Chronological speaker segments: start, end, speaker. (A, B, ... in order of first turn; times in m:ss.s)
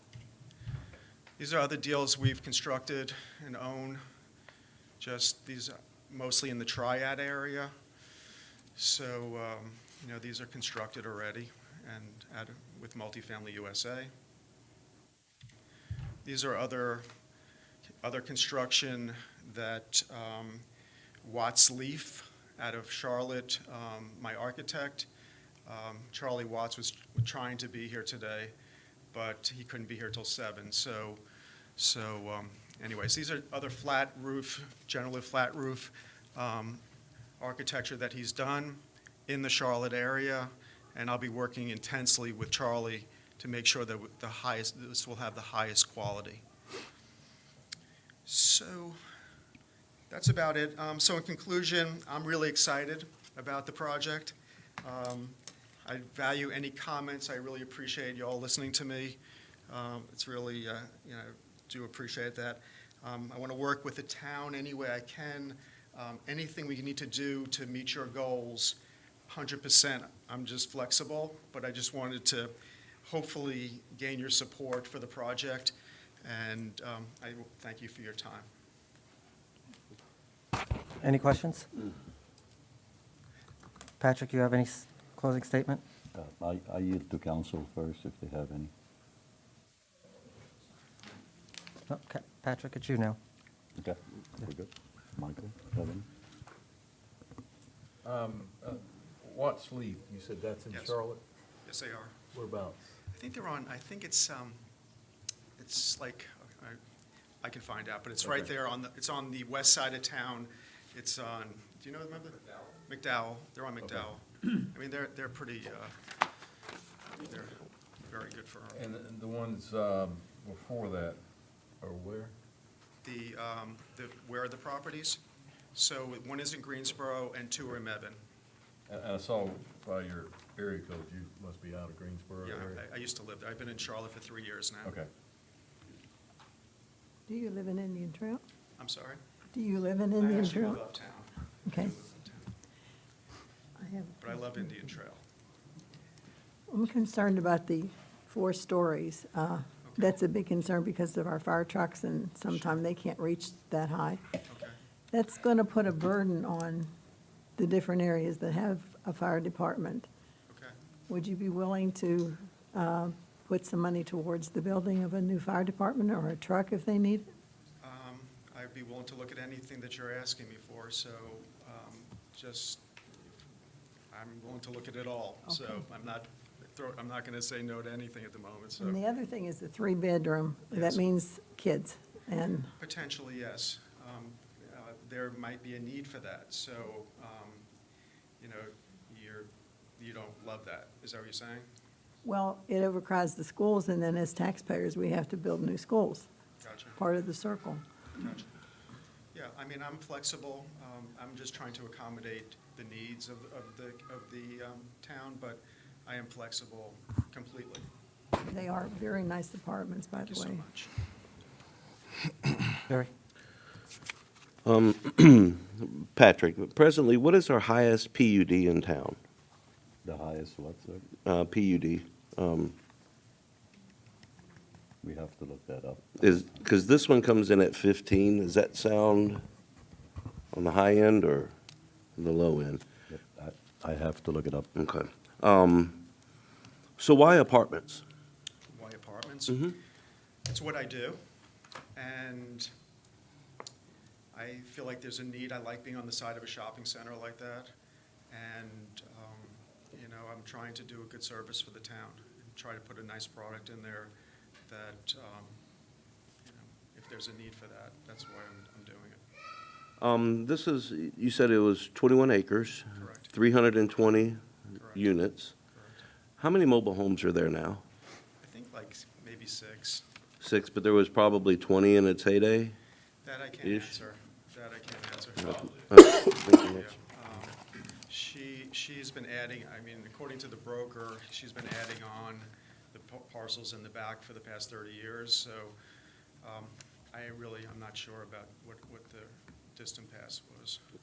0:01.4-0:04.0 A
0:05.0-0:07.7 A
0:08.7-0:14.1 A
0:16.2-0:17.0 A
0:18.0-0:20.6 A
0:21.2-0:25.1 A
0:25.6-0:28.5 A
0:29.1-0:31.2 A
0:31.8-0:36.8 A
0:37.4-0:46.4 A
0:48.2-0:49.0 A
0:50.1-1:18.5 A
1:21.0-1:21.6 B
1:24.0-1:25.8 B
1:26.1-1:28.7 C
1:31.9-1:33.2 B
1:33.8-1:36.1 C
1:38.0-1:41.2 D
1:40.7-1:41.0 A
1:41.6-1:42.2 A
1:42.3-1:42.9 D
1:43.1-1:44.6 A
1:45.6-1:46.8 A
1:47.4-1:56.0 A
1:48.2-1:48.5 D
1:57.2-1:58.8 A
1:58.7-2:01.2 D
2:01.8-2:02.3 D
2:03.0-2:05.2 A
2:05.7-2:08.2 A
2:08.9-2:12.8 D
2:12.4-2:15.0 A
2:14.8-2:15.1 D
2:17.3-2:18.4 E
2:18.8-2:19.2 A
2:19.5-2:20.8 E
2:20.2-2:22.5 A
2:21.6-2:21.9 E
2:23.8-2:24.6 E
2:24.2-2:25.2 A
2:26.7-2:34.2 E
2:29.8-2:30.2 A
2:34.5-2:34.8 A
2:35.1-2:36.9 E
2:37.6-2:40.1 E
2:40.5-2:40.7 A
2:41.1-2:47.3 E
2:47.8-2:53.3 A
2:54.1-2:59.0 A
2:58.8-3:02.7 E
3:00.7-3:01.0 A
3:02.8-3:07.6 A
3:08.4-3:11.7 A
3:12.2-3:16.3 E
3:16.6-3:17.0 A
3:17.0-3:17.8 E
3:18.2-3:18.5 A
3:19.3-3:27.9 A
3:28.4-3:30.6 E
3:30.2-3:30.9 A
3:34.6-3:39.2 F
3:40.0-3:41.1 C
3:41.2-3:42.7 F
3:45.0-3:46.6 C
3:46.2-3:49.4 F
3:50.5-3:51.5 F
3:52.2-3:52.8 F
3:53.1-3:54.7 C
3:54.7-3:56.0 F
3:57.0-3:58.0 F
3:58.7-3:59.7 A
4:00.4-4:01.2 A
4:01.9-4:02.7 A
4:04.3-4:07.7 A
4:08.3-4:14.1 A
4:14.7-4:15.5 A
4:16.4-4:19.2 A
4:20.0-4:24.4 F
4:22.9-4:23.3 A
4:24.7-4:26.0 A
4:24.9-4:25.5 F
4:26.4-4:27.8 F
4:28.4-4:30.0 A
4:30.4-4:32.8 F
4:33.2-4:37.6 A
4:33.6-4:34.0 F
4:35.4-4:36.9 F
4:38.1-4:45.7 A
4:46.4-4:50.8 A